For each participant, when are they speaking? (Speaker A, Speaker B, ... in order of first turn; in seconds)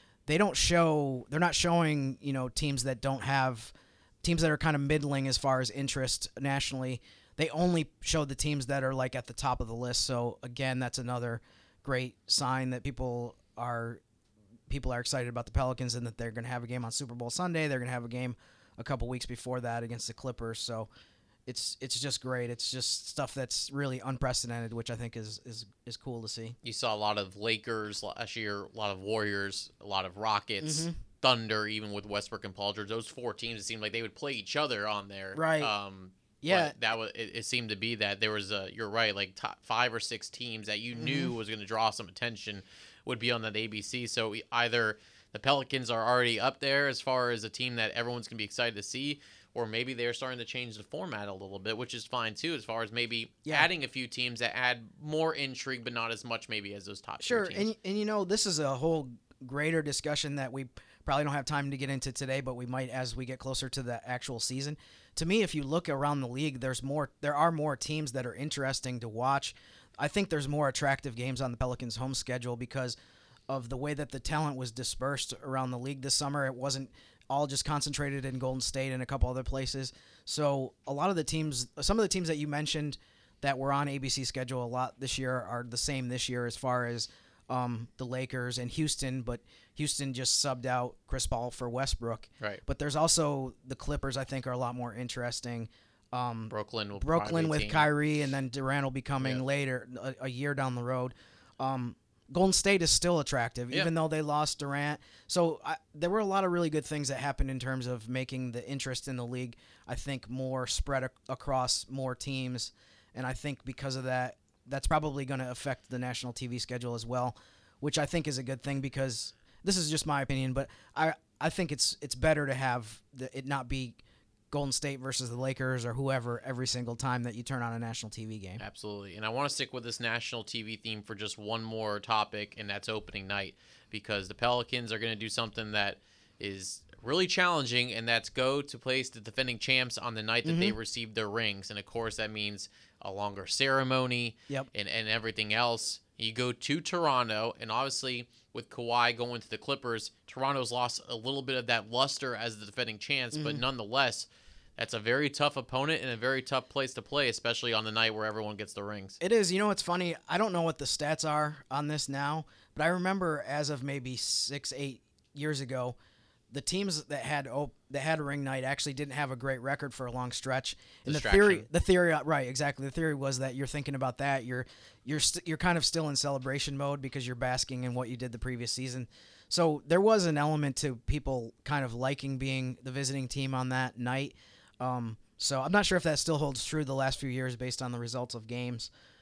Speaker A: 0.3-14.0, 14.7-20.9, 21.5-26.6, 30.6-31.0, 35.4-35.7, 36.4-36.8, 41.0-41.4, 57.2-73.0, 73.5-124.0, 124.5-128.6, 140.4-140.8, 153.3-153.6, 159.2-166.0, 166.5-188.9
Speaker B: 26.6-57.7, 96.5-97.9, 128.6-159.2, 171.1-171.7